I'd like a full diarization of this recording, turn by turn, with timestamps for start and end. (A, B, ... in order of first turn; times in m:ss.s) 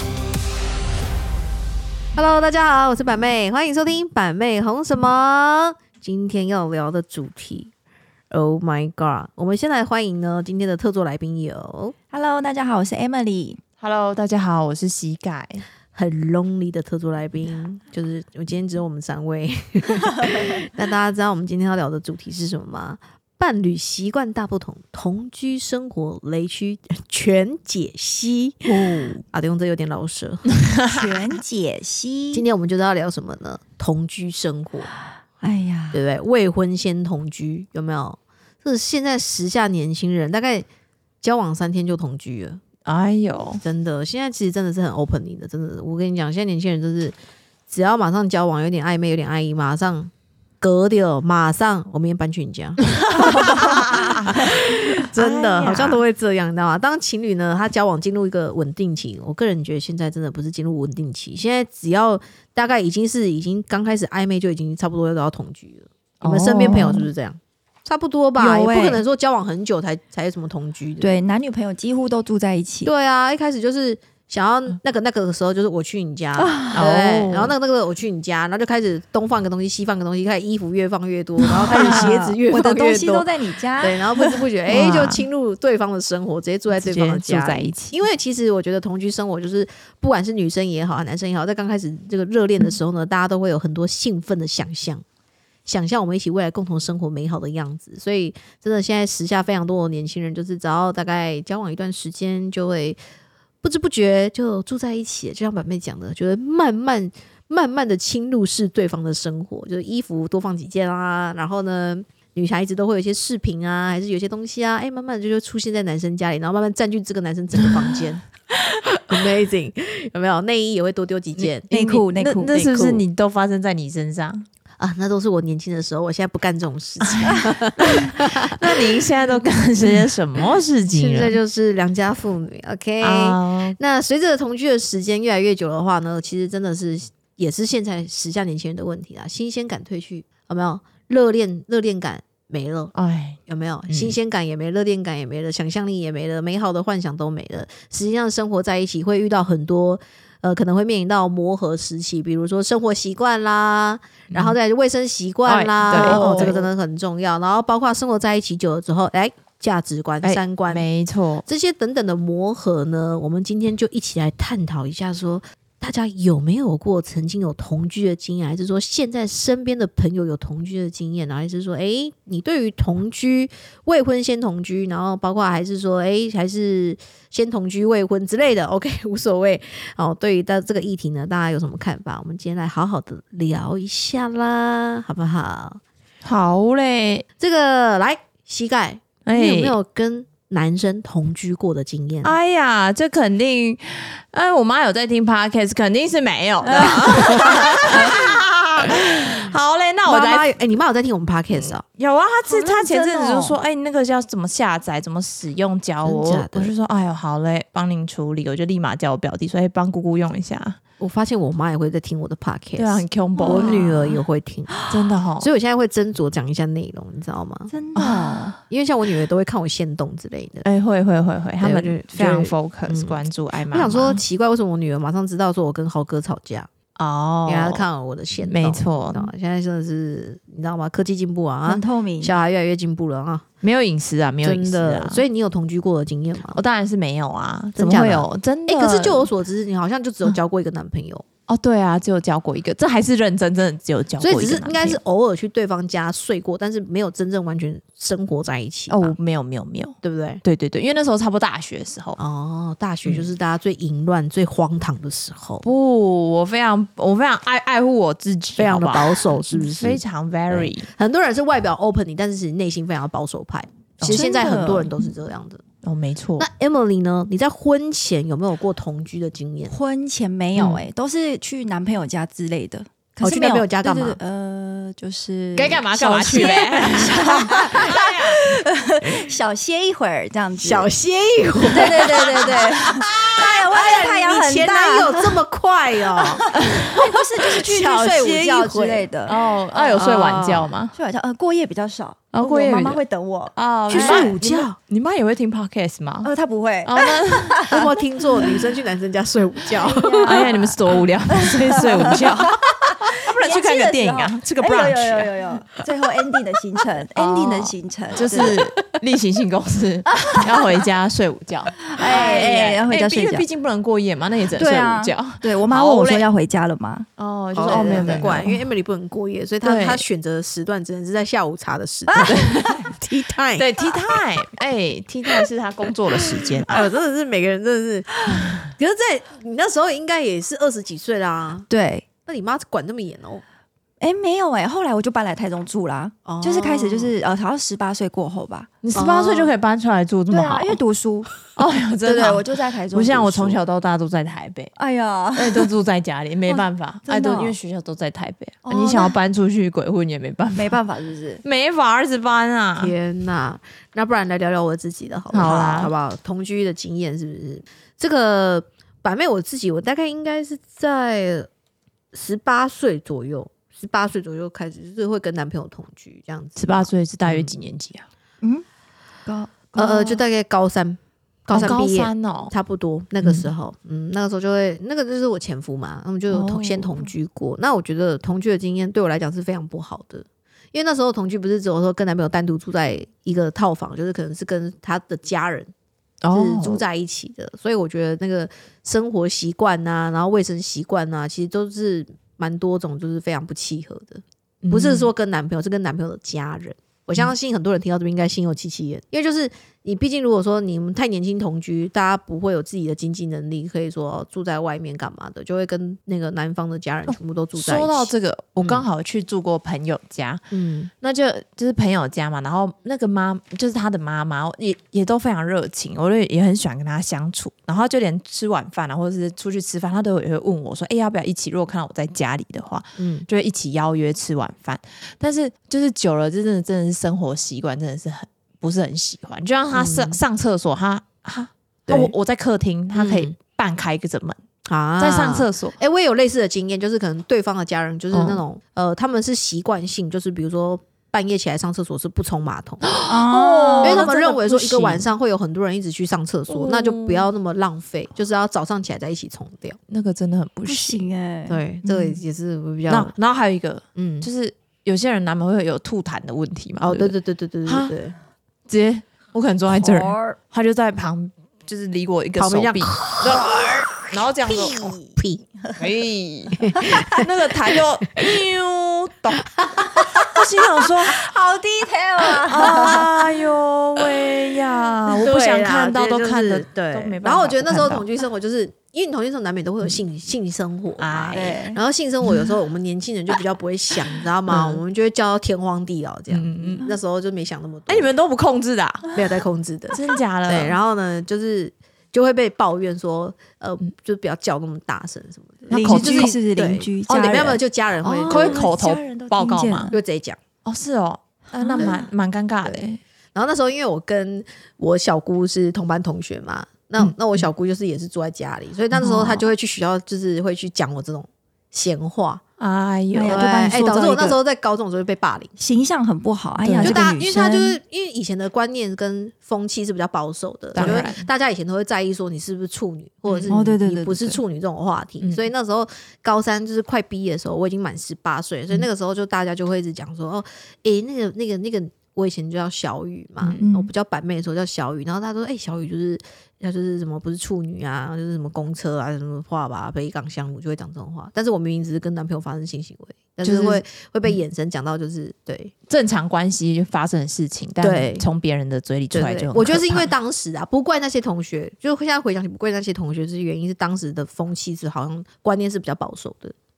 0:02.2-0:07.7 A
0:08.3-0:11.9 A
0:12.1-0:13.6 B
0:13.8-0:15.6 C
0:15.9-0:30.5 A
0:28.6-0:29.2 B
0:30.6-0:31.3 C
0:30.9-0:32.4 B
0:32.3-0:34.9 A
0:35.4-0:36.0 B
0:35.9-0:40.6 A
0:41.2-0:42.6 A
0:42.8-0:43.6 C
0:43.6-0:47.1 A
0:47.7-1:11.2 A
0:53.2-0:54.5 C
0:55.1-0:56.0 C
1:06.2-1:07.1 C
1:08.4-1:09.0 B
1:11.0-1:12.9 B
1:12.8-1:35.0 A
1:16.4-1:16.8 B
1:16.7-1:17.5 C
1:21.6-1:22.2 C
1:21.7-1:24.4 B
1:24.7-1:25.2 C
1:26.7-1:27.9 C
1:35.6-1:43.0 A
1:43.6-1:58.3 A
1:58.8-2:03.0 A
2:01.4-2:04.4 C
2:01.7-2:02.6 B
2:04.8-2:08.9 A
2:07.2-2:11.4 C
2:10.9-2:22.9 A
2:13.0-2:13.8 C
2:22.9-2:24.2 C
2:23.5-2:40.8 A
2:34.3-2:34.6 C
2:35.4-2:36.6 C
2:35.9-2:36.6 B
2:40.2-2:41.4 C
2:41.4-3:05.8 A
3:06.2-3:07.2 C
3:07.4-3:12.4 A
3:09.2-3:09.7 C
3:12.2-3:20.5 C
3:16.7-3:18.1 B
3:20.0-3:21.8 A
3:21.5-3:30.8 C
3:22.5-3:23.6 B
3:26.0-3:26.7 A
3:31.0-3:34.7 A
3:32.8-3:34.2 C
3:33.4-3:33.9 B
3:34.9-3:35.5 C
3:35.4-3:37.7 A
3:37.7-3:38.5 B
3:38.0-3:38.6 C
3:38.7-3:40.6 A
3:40.6-3:44.2 C
3:41.6-3:43.2 A
3:43.7-3:46.7 A
3:47.0-3:47.8 C
3:47.4-3:53.4 A
3:48.4-3:49.3 C
3:51.6-3:52.3 B
3:53.6-3:55.2 C
3:54.4-3:56.6 A
3:56.5-3:59.3 C
3:57.8-4:01.2 A
4:01.5-4:05.0 C
4:04.2-4:09.1 A
4:08.9-4:12.2 C
4:10.0-4:10.4 A
4:12.2-4:15.6 A
4:15.6-4:20.9 C
4:18.6-4:25.6 A
4:24.0-4:24.4 C
4:24.1-4:25.0 B
4:25.8-4:26.5 C
4:26.4-4:29.7 A
4:29.7-4:40.9 B
4:30.5-4:30.8 C
4:33.2-4:34.2 A
4:35.6-4:38.4 C
4:36.0-4:38.6 A
4:40.6-4:49.1 A
4:41.7-4:45.3 B
4:46.4-4:50.0 B
4:49.2-4:50.9 C
4:49.9-4:50.7 A
4:50.9-4:54.3 B
4:52.3-4:53.0 C
4:53.5-4:56.3 C
4:53.9-4:54.8 A
4:56.2-4:57.9 B
4:56.8-4:57.6 C
4:57.7-5:00.4 A
4:59.7-5:08.7 B
5:00.2-5:05.3 C
5:07.1-5:16.3 C
5:08.3-5:08.6 A
5:11.8-5:13.4 B
5:12.0-5:12.8 A
5:14.6-5:18.5 B
5:17.2-5:18.6 C
5:17.5-5:24.0 A
5:19.6-5:20.0 C
5:22.1-5:22.8 B
5:22.2-5:22.9 C
5:23.6-5:26.8 C
5:26.2-5:31.7 A
5:31.7-5:32.0 B
5:32.2-5:33.4 A
5:34.0-5:39.5 B
5:36.2-5:37.1 A
5:38.8-5:40.8 C
5:38.9-5:39.3 A
5:40.3-5:41.3 B
5:41.6-5:44.7 C
5:42.0-5:43.6 B
5:44.8-5:45.7 B
5:45.3-5:50.8 C
5:46.5-5:47.6 B
5:48.6-5:49.2 B
5:50.5-5:51.4 B
5:51.4-5:52.9 C
5:52.8-6:01.5 A
5:55.3-5:55.9 C
6:02.1-6:07.5 A
6:06.6-6:08.1 C
6:09.2-6:10.2 B
6:09.7-6:25.7 A
6:11.5-6:12.5 C
6:13.2-6:13.5 C
6:16.3-6:17.1 C
6:26.2-6:26.8 C
6:26.3-6:48.8 A
6:34.6-6:35.1 C
6:47.6-6:50.4 C
6:50.5-6:50.9 A
6:51.0-7:14.4 C
7:03.0-7:03.3 A
7:09.7-7:10.2 A
7:11.9-7:12.1 A
7:12.9-7:13.3 A
7:14.6-7:23.0 A
7:15.0-7:15.8 C
7:18.1-7:18.4 C
7:22.8-7:25.1 C
7:23.1-7:24.1 B
7:23.8-7:29.8 A
7:26.5-7:27.3 C
7:29.9-7:31.0 C
7:30.7-7:31.6 B
7:31.5-7:33.1 A
7:31.8-7:32.2 C
7:32.9-7:37.1 C
7:34.0-7:34.3 A
7:36.8-7:38.1 A
7:37.6-7:37.9 C
7:38.7-7:45.0 C
7:39.7-7:40.4 B
7:42.4-7:45.4 A
7:45.8-7:51.2 C
7:46.6-7:47.3 A
7:49.5-7:50.4 A
7:51.1-7:53.1 B
7:52.4-7:58.0 C
7:52.6-7:53.0 A
7:55.1-8:08.1 A
8:01.0-8:01.6 C
8:01.3-8:01.8 B
8:04.5-8:04.8 C
8:06.3-8:06.8 C
8:07.9-8:09.1 C
8:09.1-8:18.6 A
8:09.9-8:10.8 C
8:15.7-8:16.4 C
8:15.7-8:20.0 B
8:17.1-8:17.4 C
8:18.3-8:19.9 C
8:19.9-8:20.4 A
8:20.6-8:23.0 C
8:21.6-8:22.0 B
8:22.6-8:32.4 A
8:32.6-8:33.5 C
8:33.1-8:34.4 B
8:33.3-8:35.5 A
8:35.6-8:37.8 B
8:36.6-8:37.0 C
8:36.8-9:05.7 A
8:40.7-8:41.2 C
8:40.8-8:41.0 B
8:43.3-8:43.5 C
8:43.5-8:44.4 B
8:45.2-8:45.4 C
8:53.6-8:53.9 B
9:03.4-9:04.4 C
9:05.9-9:10.1 C
9:07.8-9:08.2 A
9:09.1-9:16.5 A